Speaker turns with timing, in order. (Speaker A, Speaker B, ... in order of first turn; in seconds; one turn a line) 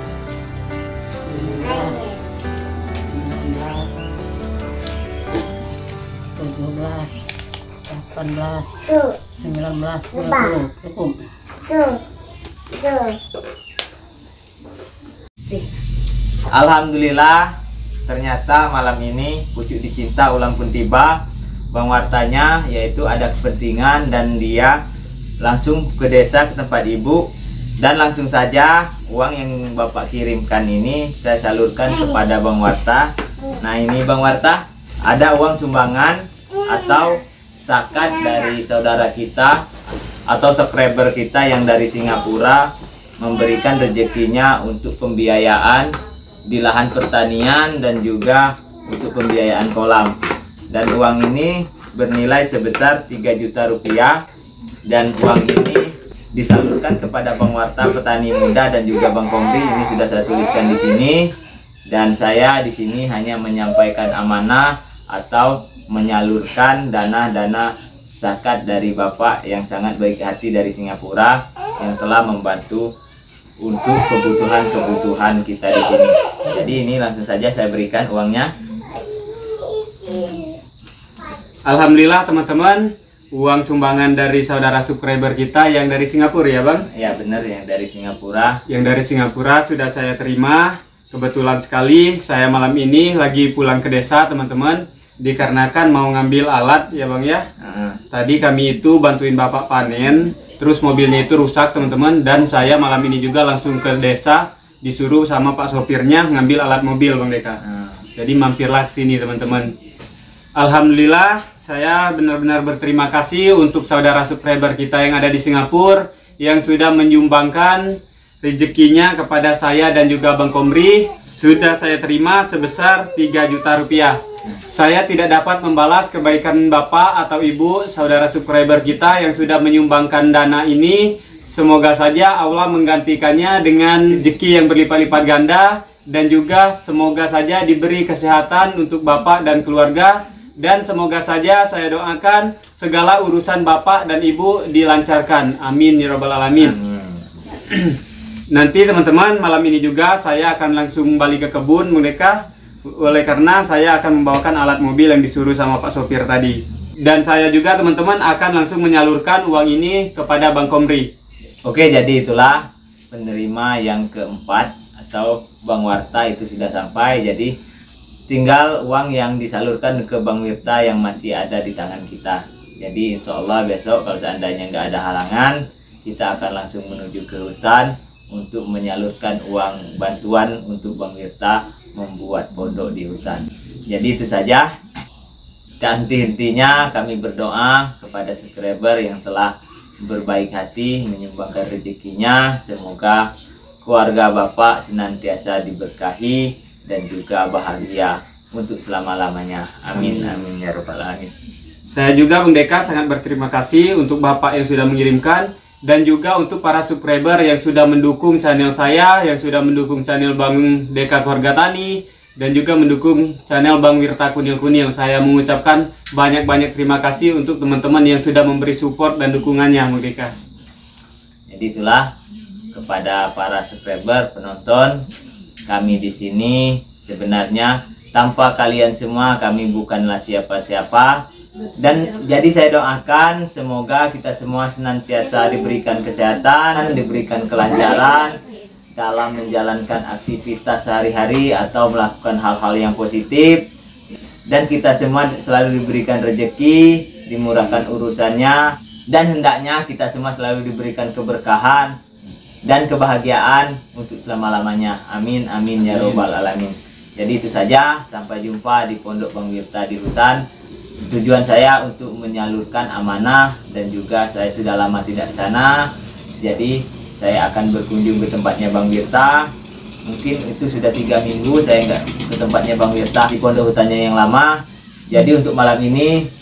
Speaker A: 1.2-2.3
Speaker A: 3.1-4.0
Speaker A: 6.3-7.2
Speaker A: 7.9-11.2
Speaker B: 16.5-17.5
Speaker B: 18.1-21.2
Speaker B: 21.7-24.8
Speaker B: 25.4-27.2
Speaker B: 27.8-39.6
Speaker B: 40.3-42.7
Speaker B: 43.2-45.9
Speaker B: 46.5-50.1
Speaker B: 50.7-54.1
Speaker B: 54.9-61.3
Speaker B: 61.9-72.9
Speaker B: 73.6-78.5
Speaker C: 81.7-86.9
Speaker B: 86.9-88.6
Speaker C: 88.7-97.5
Speaker B: 97.6-98.0
Speaker C: 98.1-107.6
Speaker B: 107.6-108.0
Speaker C: 108.2-109.8
Speaker C: 110.5-124.2
Speaker C: 124.7-146.8
Speaker B: 146.6-147.3
Speaker C: 147.7-148.0
Speaker C: 148.5-161.1
Speaker B: 161.7-167.5
Speaker B: 168.3-184.7
Speaker B: 185.8-193.3
Speaker B: 193.8-201.3
Speaker C: 201.9-220.3
Speaker B: 221.5-222.1
Speaker B: 222.7-225.1
Speaker B: 225.7-231.2
Speaker B: 231.8-238.4
Speaker B: 239.0-243.7
Speaker B: 244.5-251.9
Speaker B: 252.7-260.4
Speaker B: 261.0-265.9
Speaker B: 266.4-269.5
Speaker B: 270.1-276.3